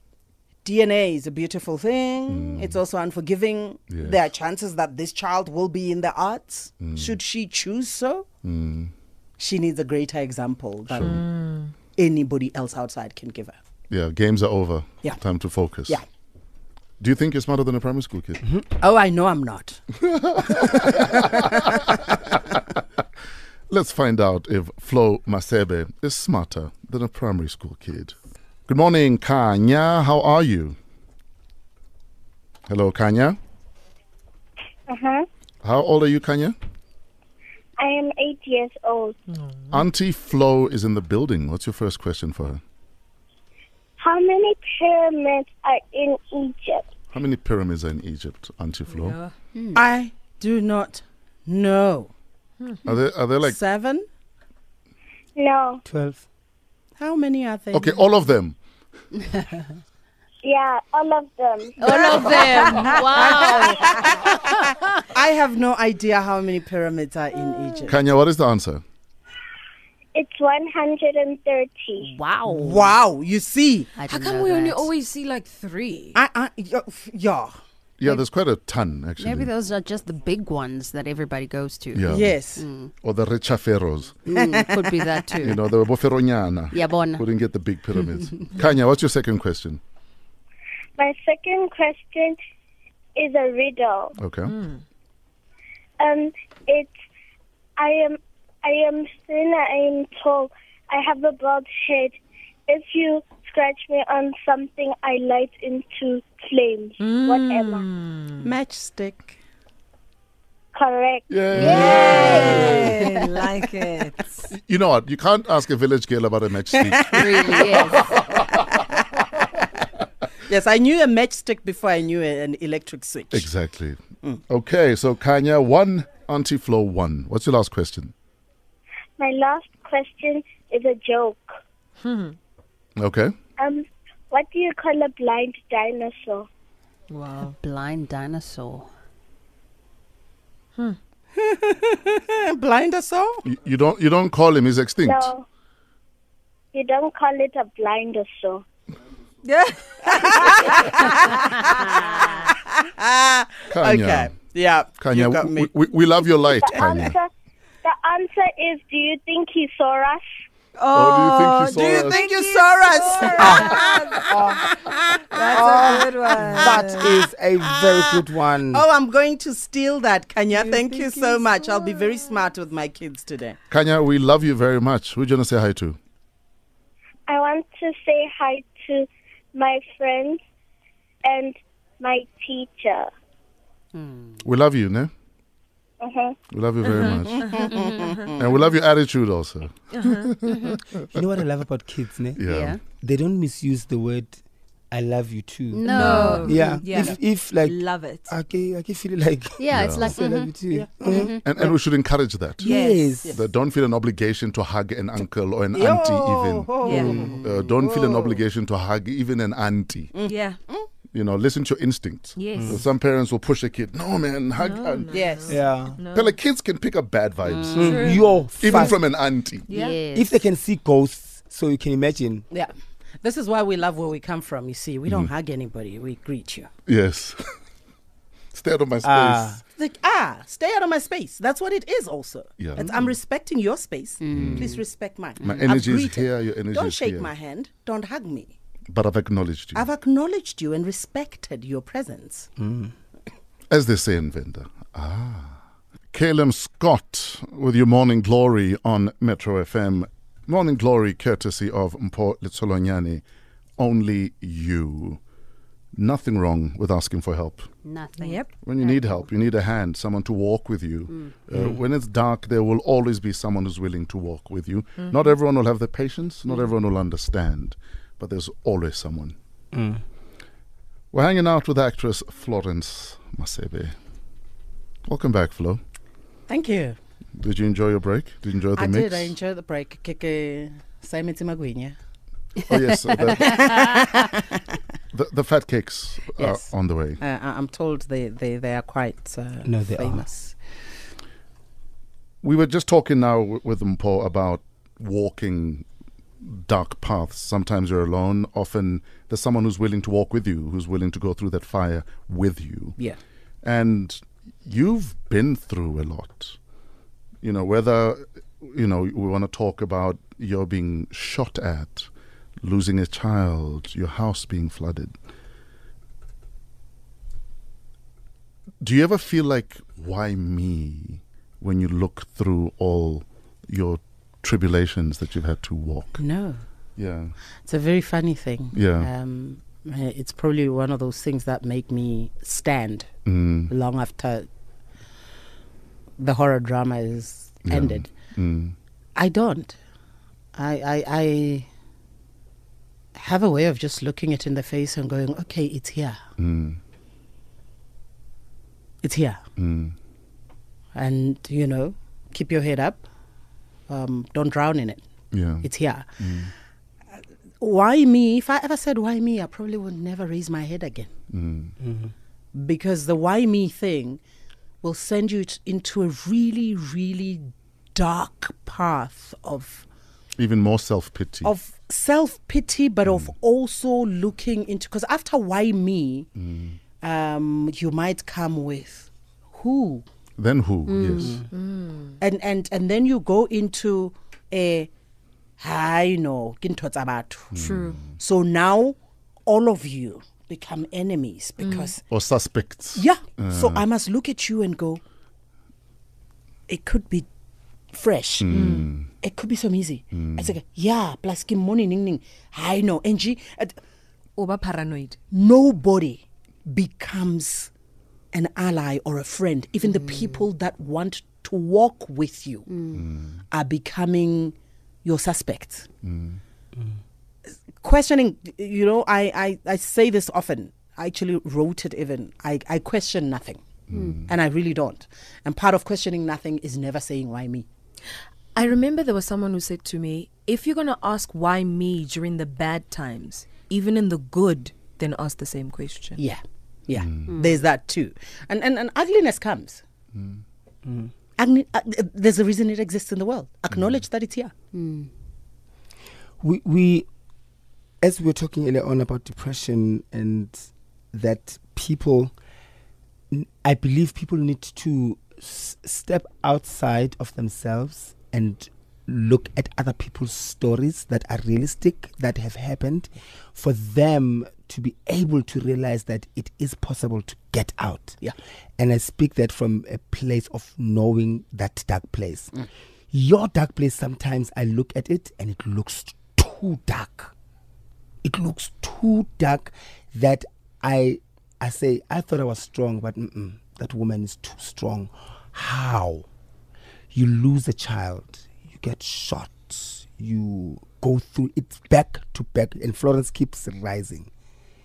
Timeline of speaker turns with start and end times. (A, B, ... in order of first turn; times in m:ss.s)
0:00.6-0:08.3 A
0:02.3-0:02.8 B
0:03.9-0:04.3 B
0:06.8-0:07.2 B
0:08.4-0:08.9 B
0:09.4-0:11.2 A
0:10.9-0:11.2 B
0:11.0-0:11.7 C
0:12.0-0:13.6 A
0:13.9-0:16.0 B
0:17.0-0:18.4 B
0:18.6-0:19.8 A
0:20.0-0:21.9 B
0:20.4-0:22.0 A
0:23.7-0:28.1 B
0:28.7-0:30.8 B
0:32.7-0:33.4 B
0:34.9-0:35.2 D
0:35.6-0:36.5 B
0:37.8-0:39.2 D
0:39.4-0:39.8 C
0:39.7-0:42.6 B
0:44.0-0:46.9 D
0:47.1-0:49.2 B
0:48.9-0:49.3 C
0:49.5-0:49.8 E
0:49.7-0:52.1 A
0:52.8-0:53.6 B
0:53.4-0:54.0 A
0:55.4-0:55.8 D
0:55.8-0:56.2 F
0:57.0-0:58.0 A
0:57.7-0:58.6 B
1:00.4-1:02.6 D
1:01.8-1:04.7 E
1:02.0-1:08.0 A
1:07.9-1:08.8 B
1:10.1-1:12.1 D
1:12.0-1:13.0 E
1:12.4-1:13.9 A
1:14.0-1:14.9 E
1:14.1-1:16.2 C
1:16.1-1:17.5 A
1:18.0-1:19.5 B
1:19.2-1:22.9 E
1:21.9-1:22.4 B
1:22.1-1:22.6 A
1:23.0-1:24.2 B
1:24.3-1:25.7 E
1:24.3-1:25.0 A
1:25.4-1:29.8 B
1:26.7-1:27.2 E
1:31.0-1:32.4 D
1:33.2-1:34.2 D
1:34.2-1:34.5 B
1:34.5-1:34.8 C
1:36.0-1:36.9 D
1:37.8-1:42.2 D
1:42.7-1:47.8 D
1:47.0-1:48.5 C
1:48.4-1:49.3 A
1:50.7-1:51.3 D
1:51.3-1:53.0 B
1:51.5-1:52.8 E
1:51.6-1:54.5 C
1:51.8-1:52.9 A
1:54.5-1:58.6 B
1:56.9-1:57.8 A
1:57.1-1:58.2 E
2:00.4-2:03.5 A
2:03.3-2:08.1 B
2:09.2-2:11.5 D
2:12.0-2:12.4 C
2:13.0-2:13.3 B
2:13.6-2:16.5 D
2:17.1-2:17.5 C
2:17.5-2:18.9 E
2:21.4-2:23.4 A
2:23.4-2:25.3 B
2:25.0-2:25.4 D
2:26.7-2:28.6 D
2:29.4-2:30.9 C
2:30.0-2:35.7 A
2:33.7-2:34.3 B
2:35.0-2:37.2 B
2:36.6-2:37.3 D
2:37.8-2:40.3 D
2:40.7-2:44.5 C
2:40.9-2:42.2 B
2:41.7-2:53.6 A
2:43.3-2:44.7 F
2:45.3-2:47.1 C
2:45.5-2:48.8 F
2:50.6-2:52.0 C
2:53.7-2:56.0 B
2:57.3-3:00.4 D
3:01.2-3:03.1 D
3:03.9-3:04.4 E
3:04.4-3:05.1 B
3:06.0-3:06.4 D
3:06.5-3:07.7 B
3:07.0-3:07.7 C
3:07.0-3:08.4 A
3:08.3-3:11.0 B
3:09.9-3:10.4 C
3:10.4-3:10.8 E
3:11.1-3:12.4 F
3:12.4-3:12.8 B
3:12.4-3:12.8 E
3:13.0-3:14.4 F
3:14.9-3:21.3 F
3:15.7-3:16.8 E
3:15.8-3:18.3 C
3:19.6-3:20.5 E
3:19.7-3:20.1 B
3:20.7-3:21.3 A
3:21.1-3:21.4 E
3:21.4-3:22.6 B
3:22.6-3:23.4 F
3:22.6-3:23.1 C
3:23.3-3:26.7 B
3:25.7-3:28.4 A
3:26.8-3:27.4 C
3:26.8-3:27.4 F
3:27.4-3:30.1 B
3:30.1-3:30.9 A
3:30.2-3:30.6 C
3:31.1-3:35.2 B
3:32.4-3:32.8 C
3:32.6-3:32.8 F
3:34.6-3:36.4 C
3:35.1-3:35.6 A
3:35.5-3:36.0 F
3:36.1-3:39.6 B
3:37.7-3:39.0 F
3:37.8-3:38.8 C
3:39.7-3:40.0 C
3:39.7-3:40.3 E
3:40.1-3:42.4 F
3:42.5-3:46.7 A
3:46.9-3:47.4 B
3:48.5-3:49.6 B
3:49.0-3:49.6 F
3:49.8-3:58.5 A
3:52.6-3:52.9 B
3:52.8-3:53.1 F
3:54.2-3:54.8 E
3:54.3-3:54.7 B
3:55.4-3:57.3 B
3:58.9-3:59.8 B
3:59.7-4:02.5 A
4:02.6-4:02.9 F
4:03.7-4:13.2 B
4:13.8-4:15.2 B
4:15.9-4:17.7 B
4:17.8-4:19.3 E
4:18.2-4:18.5 C
4:18.6-4:29.4 B
4:29.7-4:30.0 F
4:31.1-4:33.9 B
4:35.0-4:35.8 B
4:36.5-4:37.0 A
4:37.4-4:39.3 B
4:38.8-4:41.9 A
4:42.6-4:43.7 B
4:43.1-4:44.5 A
4:45.1-4:47.2 B
4:46.4-4:46.7 A
4:47.2-4:50.5 A
4:49.6-4:50.2 F
4:52.4-4:55.8 B
4:56.4-5:03.0 B
5:03.6-5:06.6 B
5:07.4-5:12.1 B
5:12.6-5:15.1 B
5:18.8-5:26.2 B
5:26.2-5:26.6 A
5:27.0-5:27.3 B
5:27.6-5:33.1 A
5:28.7-5:29.1 B
5:33.2-5:33.7 B
5:33.7-5:34.5 A
5:36.2-5:38.1 A
5:37.6-5:38.8 B
5:39.2-5:39.8 A
5:40.6-5:41.7 A
5:43.2-5:46.2 A
5:46.4-5:46.8 B
5:49.0-5:49.4 A
5:49.6-5:50.0 B
5:50.9-5:53.0 A
5:53.9-5:55.0 A
5:55.3-5:55.7 B
5:55.6-5:56.1 A
5:56.2-5:56.5 B
5:57.6-6:01.1 A
6:01.3-6:01.7 B
6:01.8-6:02.1 F
6:02.5-6:04.2 A
6:04.8-6:09.8 A
6:10.4-6:11.5 B
6:11.4-6:16.3 A
6:13.1-6:13.3 B
6:16.4-6:16.8 B
6:17.0-6:20.0 A
6:20.4-6:21.3 B
6:20.9-6:21.4 E
6:21.5-6:22.2 C
6:22.2-6:24.9 A
6:25.6-6:27.5 A
6:27.5-6:28.1 B
6:27.5-6:28.0 C
6:28.1-6:29.0 A
6:29.5-6:32.0 A
6:31.6-6:31.9 C
6:32.1-6:33.8 B
6:32.9-6:35.0 A
6:36.7-6:37.3 A
6:37.9-6:43.8 A
6:38.4-6:39.1 B
6:38.5-6:38.9 C
6:40.1-6:40.5 B
6:44.4-6:45.2 C
6:45.3-6:47.7 A
6:48.3-6:52.7 A
6:50.0-6:50.4 E
6:52.7-6:53.0 E
6:52.9-6:53.4 B
6:53.5-6:55.9 A
6:56.0-6:56.4 B
6:57.8-7:03.6 A
7:03.9-7:04.3 B
7:03.9-7:04.2 E
7:04.3-7:07.6 A
7:08.5-7:16.2 C
7:16.2-7:19.8 A
7:17.0-7:17.3 B
7:17.3-7:17.6 E
7:20.1-7:20.4 B
7:20.8-7:21.1 F
7:21.4-7:24.5 A
7:24.7-7:25.1 E
7:26.4-7:27.1 F
7:28.0-7:32.3 F
7:33.3-7:48.2 F
7:48.8-7:52.5 F
7:53.1-7:57.3 F
7:58.2-8:06.2 F
8:07.1-8:14.3 F